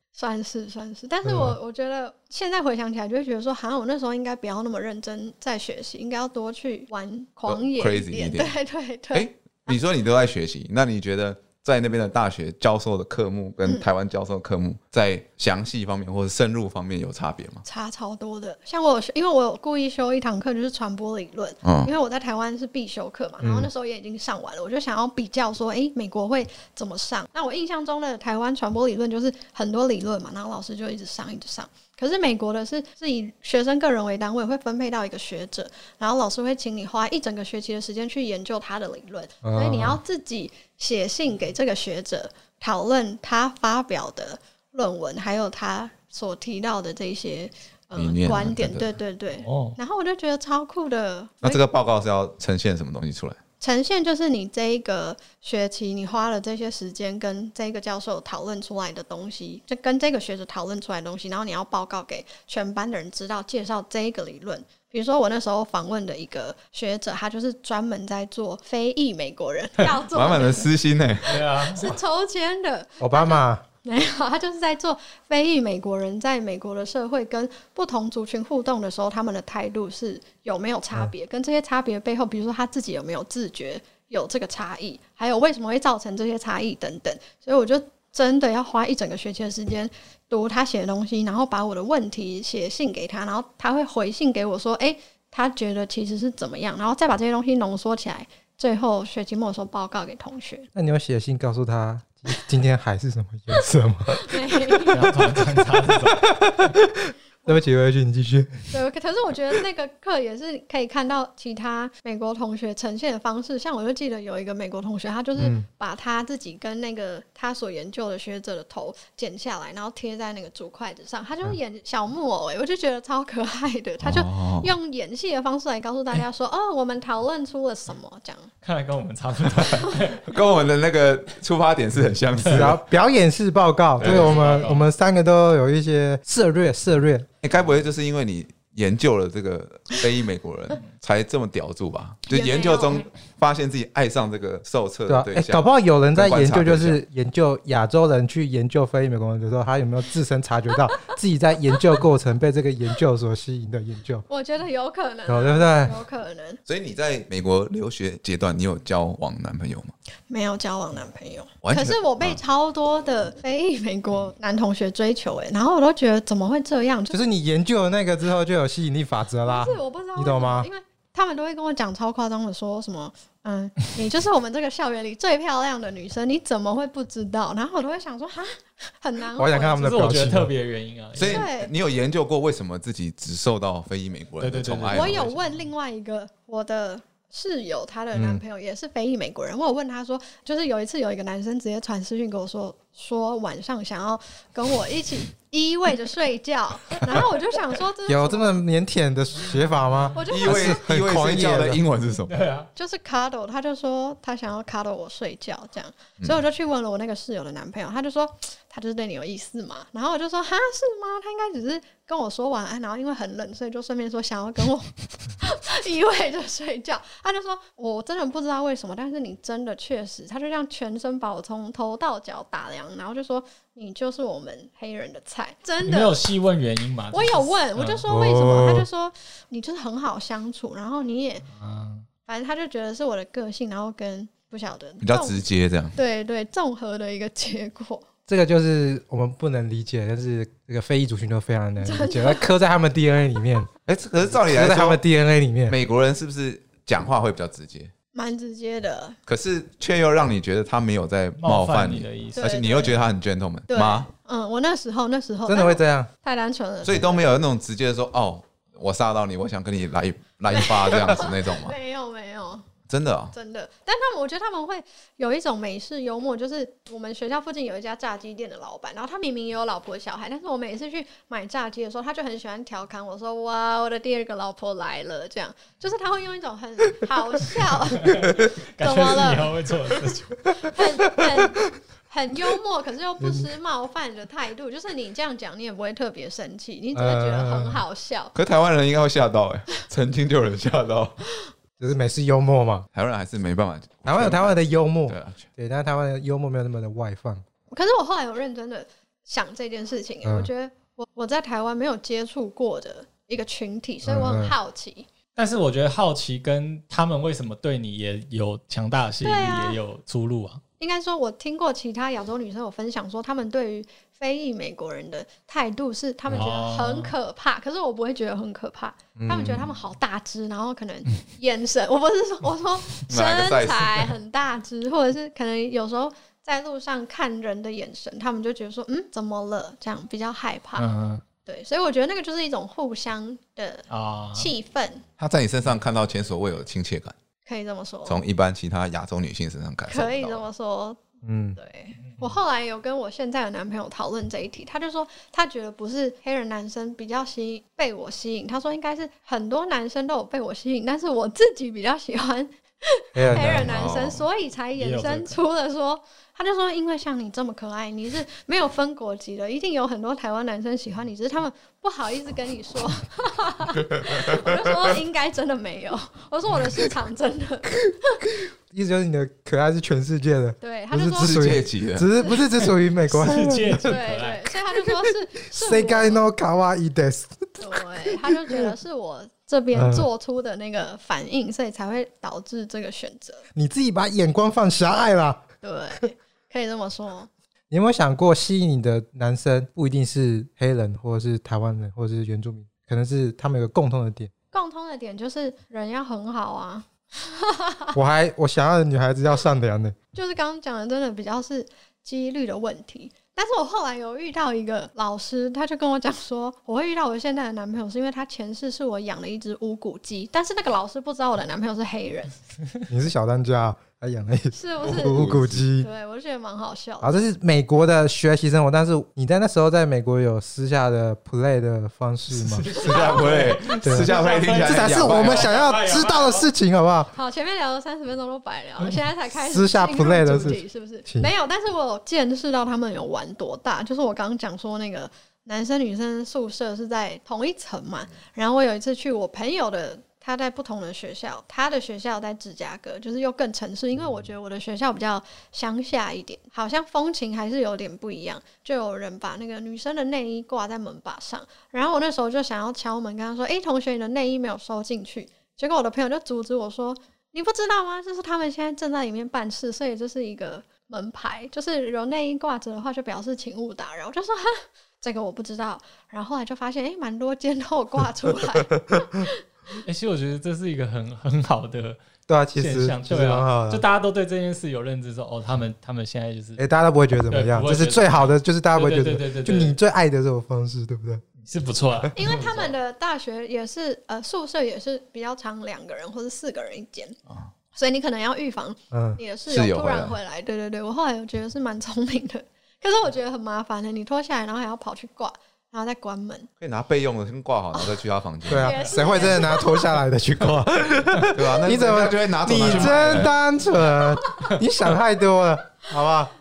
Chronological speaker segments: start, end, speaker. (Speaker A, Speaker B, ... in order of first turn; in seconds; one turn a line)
Speaker A: 0.1-9.8
Speaker B: 1.2-1.6
Speaker C: 7.5-8.6
Speaker C: 9.1-17.6
Speaker A: 17.6-51.6
Speaker C: 21.6-21.9
Speaker B: 23.4-23.7
Speaker B: 39.4-40.0
Speaker C: 48.0-48.9
Speaker D: 49.4-49.8
Speaker C: 51.4-53.4
Speaker A: 53.6-70.7
Speaker C: 70.1-71.4
Speaker D: 71.2-71.9
Speaker A: 71.3-100.7
Speaker B: 73.0-73.6
Speaker B: 100.7-104.8
Speaker A: 104.1-105.1
Speaker D: 104.9-106.4
Speaker B: 106.0-108.7
Speaker A: 108.7-128.5
Speaker B: 115.4-115.7
Speaker C: 124.0-124.7
Speaker D: 128.6-130.3
Speaker C: 130.2-132.8
Speaker D: 132.4-132.7
Speaker B: 132.5-137.3
Speaker D: 134.0-134.8
Speaker C: 134.0-134.4
Speaker C: 137.4-147.0
Speaker A: 142.3-143.1
Speaker B: 145.1-154.2
Speaker A: 154.3-156.6
Speaker B: 155.3-155.9
Speaker C: 156.7-159.9
Speaker A: 160.3-167.2
Speaker C: 161.6-162.4
Speaker B: 167.1-170.7
Speaker A: 169.4-179.8
Speaker B: 179.3-180.5
Speaker D: 179.8-181.5
Speaker C: 181.1-185.3
Speaker A: 181.2-181.7
Speaker D: 184.4-185.3
Speaker A: 184.9-198.6
Speaker B: 188.1-188.4
Speaker B: 198.1-201.8
Speaker A: 200.1-200.9
Speaker C: 200.2-202.3
Speaker D: 202.2-202.7
Speaker A: 202.7-226.2
Speaker D: 225.8-228.0
Speaker A: 227.1-231.5
Speaker B: 228.1-228.9
Speaker D: 231.5-232.1
Speaker A: 232.2-238.1
Speaker C: 235.0-236.0
Speaker B: 238.3-243.7
Speaker A: 241.8-242.4
Speaker C: 243.8-245.0
Speaker B: 244.2-245.8
Speaker C: 245.7-247.9
Speaker A: 248.1-249.2
Speaker C: 249.2-254.1
Speaker D: 251.4-252.4
Speaker A: 252.3-253.1
Speaker A: 253.7-257.2
Speaker B: 255.4-256.1
Speaker C: 256.8-261.8
Speaker A: 260.5-262.7
Speaker C: 262.9-263.3
Speaker A: 263.3-278.2
Speaker D: 278.0-280.4
Speaker A: 278.8-288.3
Speaker B: 281.1-281.5
Speaker B: 283.2-283.5
Speaker B: 286.9-287.8
Speaker C: 288.3-291.2
Speaker B: 291.8-292.9
Speaker C: 292.9-295.4
Speaker B: 294.0-297.4
Speaker A: 297.7-305.1
Speaker B: 300.2-300.5
Speaker B: 304.0-304.5
Speaker D: 305.4-310.6
Speaker A: 309.2-309.8
Speaker A: 310.8-330.9
Speaker D: 316.3-317.1
Speaker B: 319.1-319.7
Speaker C: 323.1-324.1
Speaker D: 330.8-331.2
Speaker A: 331.4-335.0
Speaker D: 333.9-334.5
Speaker C: 335.2-337.1
Speaker A: 337.4-338.2
Speaker C: 338.1-340.4
Speaker A: 339.9-341.0
Speaker B: 341.2-341.6
Speaker A: 341.6-368.2
Speaker B: 353.1-353.7
Speaker C: 353.3-354.2
Speaker D: 354.8-355.4
Speaker C: 363.8-364.9
Speaker B: 368.7-373.9
Speaker A: 370.6-371.6
Speaker C: 371.2-372.1
Speaker D: 372.6-374.6
Speaker A: 373.8-376.2
Speaker B: 375.5-378.7
Speaker A: 377.6-383.4
Speaker B: 379.7-380.1
Speaker B: 383.5-385.4
Speaker A: 385.6-387.3
Speaker B: 387.7-394.3
Speaker A: 394.5-397.9
Speaker B: 397.9-399.9
Speaker A: 400.1-412.3
Speaker B: 412.9-415.9
Speaker A: 414.5-417.2
Speaker C: 414.8-415.6
Speaker B: 417.0-422.8
Speaker D: 422.3-426.5
Speaker A: 422.7-423.4
Speaker C: 422.7-425.5
Speaker B: 423.8-427.1
Speaker A: 427.1-469.4
Speaker B: 429.4-431.3
Speaker D: 469.8-472.0
Speaker B: 472.3-473.8
Speaker D: 472.5-476.6
Speaker B: 476.6-481.2
Speaker D: 477.3-479.7
Speaker D: 481.4-482.7
Speaker A: 482.1-487.2
Speaker A: 487.7-496.5
Speaker B: 488.9-489.2
Speaker C: 489.5-490.2
Speaker C: 496.6-498.8
Speaker A: 497.7-499.9
Speaker B: 498.5-506.3
Speaker C: 501.3-503.3
Speaker D: 502.6-503.3
Speaker A: 504.2-504.5